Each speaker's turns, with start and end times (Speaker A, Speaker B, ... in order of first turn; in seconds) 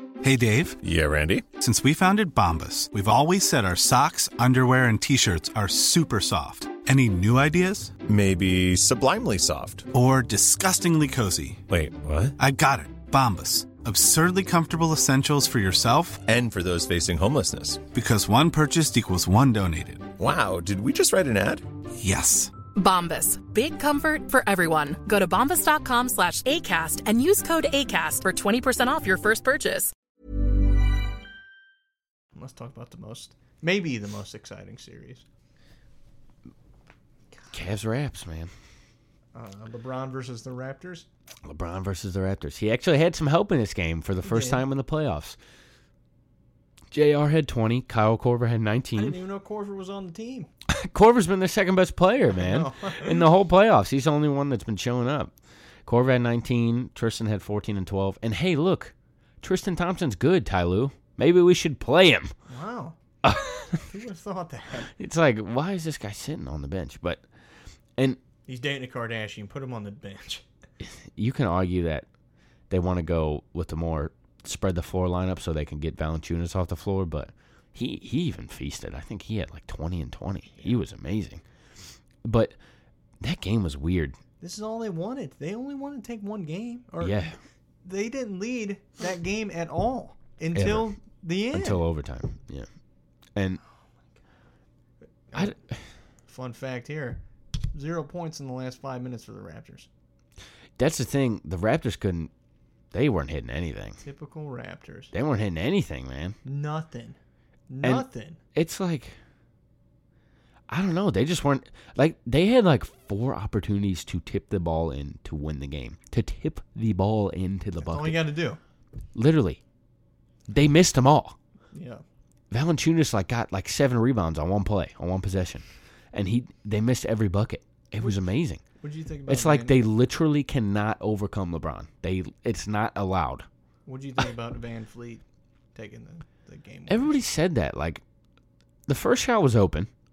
Speaker A: 0.2-0.8, 1.5-8.0, 9.9-11.6, 12.4-16.2, 17.9-20.1, 22.0-22.5
Speaker B: 0.8-1.5, 8.0-9.9, 11.7-12.4, 16.2-17.8, 20.2-21.6
Speaker C: 22.8-29.9
Speaker D: 32.4-35.2, 39.3-41.1, 44.2-44.6, 49.0-50.5, 52.3-53.3, 62.5-63.0, 63.8-64.9, 68.5-70.4, 84.4-91.8, 95.3-95.6, 96.3-97.2, 97.7-99.9, 104.0-105.1, 106.5-107.2, 107.7-108.4, 117.8-118.6, 121.7-122.0, 128.8-129.8, 133.9-135.2, 135.8-137.2
Speaker E: 37.5-38.5, 41.4-45.4, 46.9-49.2, 50.7-55.3, 55.9-62.3, 63.2-63.8, 65.0-67.2, 70.8-72.1, 72.7-81.4, 82.2-82.6, 83.2-84.2, 87.0-87.4, 90.5-91.0, 91.5-92.7, 95.3-95.8, 100.8-102.3, 102.9-104.0, 105.1-106.4, 107.8-109.2, 110.7-118.2, 119.1-119.6, 120.5-121.4, 122.5-128.6, 129.3-133.5, 136.9-138.0, 138.9-139.9